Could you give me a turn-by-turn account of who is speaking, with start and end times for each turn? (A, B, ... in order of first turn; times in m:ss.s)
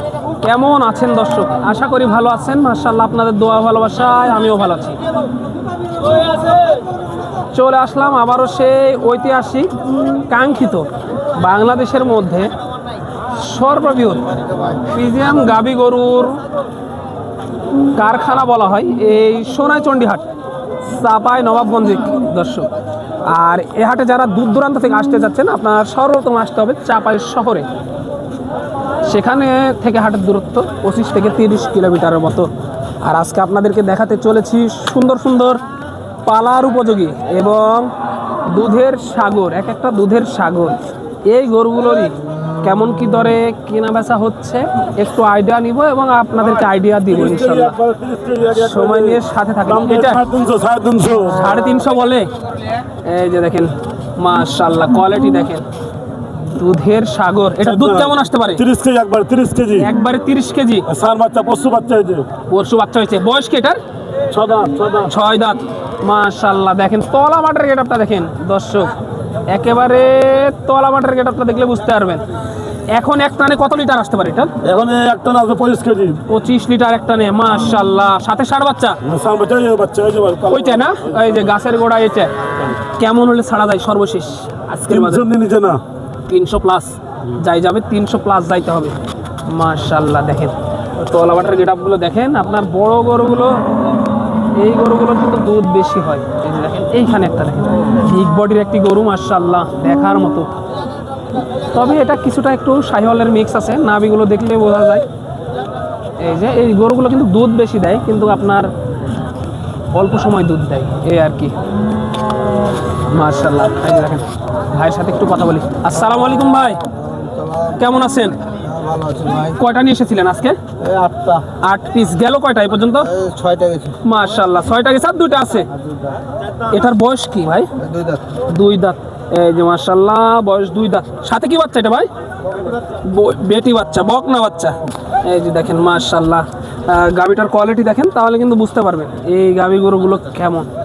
0:00.4-0:05.0 A
0:07.5-0:09.7 A
0:10.3-0:12.5 A
0:13.3-0:16.4 A
0:17.9-0:20.2 A
0:20.8-0:22.7 A
0:23.2-0:27.7 A
0:29.0-0:32.5 A
0:33.0-0:35.6 A
0:36.2-0:37.9 A
0:38.4-0:47.8 A
0:47.1-0:51.5 B
0:48.5-0:50.2 A
0:51.2-0:52.3 A
0:53.0-0:55.6 A
0:56.5-0:58.6 A
0:57.6-0:59.9 B
0:59.7-1:00.9 A
1:00.9-1:02.3 B
1:02.5-1:03.8 A
1:04.3-1:05.1 B
1:05.0-1:08.9 A
1:09.5-1:12.2 A
1:12.9-1:14.5 A
1:14.6-1:16.2 B
1:16.3-1:19.0 A
1:19.0-1:21.4 B
1:20.5-1:25.3 A
1:24.9-1:25.8 B
1:26.3-1:33.6 A
1:34.6-1:40.5 A
1:41.7-1:45.0 A
1:46.2-1:48.7 A
1:49.9-1:51.5 A
1:53.1-1:56.8 A
1:56.8-1:57.8 C
1:57.8-1:58.4 A
1:58.5-1:59.6 C
1:59.5-2:00.6 A
2:00.8-2:01.4 C
2:01.6-2:03.1 A
2:03.0-2:04.0 C
2:04.0-2:05.7 A
2:05.7-2:06.2 C
2:06.7-2:07.7 A
2:07.8-2:08.4 C
2:08.5-2:12.1 A
2:13.0-2:20.7 A